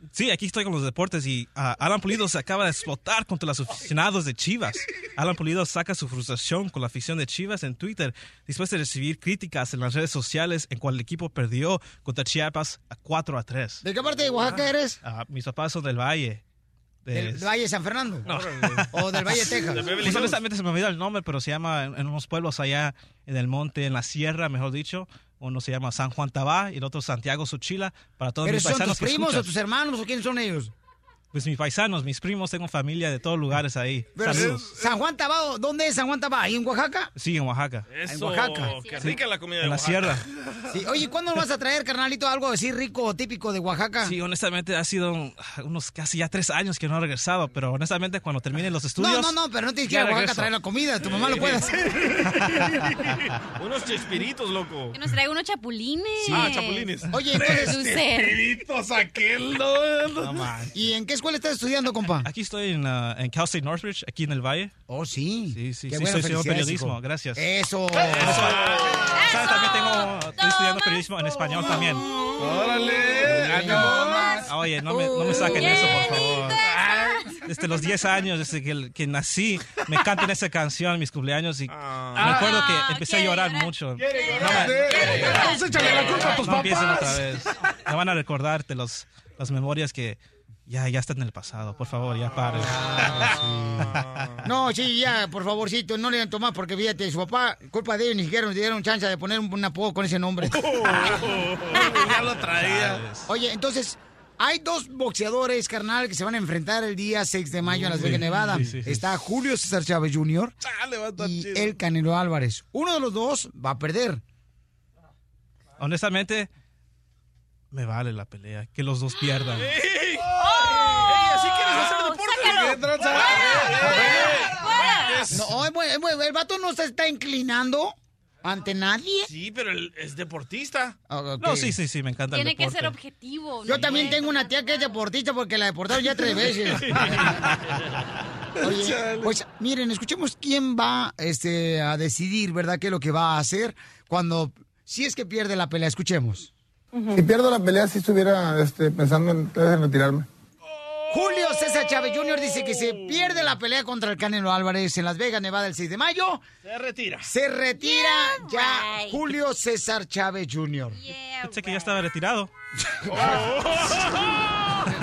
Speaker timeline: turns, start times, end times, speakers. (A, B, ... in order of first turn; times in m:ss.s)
0:00.1-0:13.8 A
0:13.8-0:15.0 B
0:15.0-0:16.4 A
0:17.1-0:17.5 A
0:17.1-0:18.3 B
0:18.2-0:19.3 A
0:18.9-0:20.3 B
0:19.7-0:20.4 C
0:20.0-0:29.5 A
0:28.4-0:30.7 B
0:31.3-0:34.7 A
0:34.1-0:37.1 B
0:37.2-0:37.9 A
0:37.9-0:40.2 C
0:38.1-0:38.8 B
0:38.7-0:39.2 D
0:39.0-0:40.2 A
0:40.7-0:44.1 B
0:44.0-0:49.4 A
0:49.0-0:52.0 B
0:49.9-0:50.5 A
0:51.1-0:51.7 C
0:53.6-0:55.0 C
0:54.9-0:57.0 D
0:56.3-0:57.2 C
0:57.1-0:57.8 B
0:57.4-1:00.7 E
0:57.6-0:58.4 D
1:00.2-1:00.7 A
1:00.7-1:02.3 B
1:02.2-1:04.7 A
1:04.9-1:08.5 B
1:05.5-1:07.4 A
1:08.1-1:12.1 A
1:08.4-1:09.0 C
1:12.4-1:14.4 E
1:13.5-1:14.4 B
1:14.4-1:16.6 A
1:15.4-1:16.1 D
1:16.7-1:17.1 E
1:17.4-1:32.8 A
1:21.7-1:22.4 C
1:22.2-1:22.5 E
1:22.7-1:23.7 D
1:24.3-1:27.2 E
1:24.9-1:25.4 C
1:25.2-1:26.2 D
1:32.9-1:33.9 B
1:33.8-1:34.3 C
1:34.4-1:40.6 B
1:40.8-1:43.0 E
1:42.0-1:43.2 A
1:43.3-1:50.6 B
1:47.7-1:49.0 A
1:47.9-1:48.7 E
1:50.6-1:51.8 E
1:51.2-1:54.2 B
1:55.8-1:56.5 A
1:57.7-1:59.8 A
1:59.5-2:00.4 C
2:00.5-2:05.3 D
2:01.0-2:04.2 C
2:02.4-2:05.5 E
2:05.3-2:09.3 B
2:09.3-2:11.0 C
2:11.1-2:11.8 B
2:11.4-2:13.0 A
2:12.3-2:14.9 D
2:13.6-2:17.0 B
2:16.7-2:17.2 C
2:18.6-2:26.5 B
2:18.8-2:19.3 E
2:27.1-2:30.3 F
2:31.1-2:36.4 B
2:36.6-2:37.3 C
2:37.2-2:41.0 B
2:38.7-2:39.0 D
2:41.0-2:42.0 D
2:41.4-2:42.5 A
2:43.2-2:44.0 C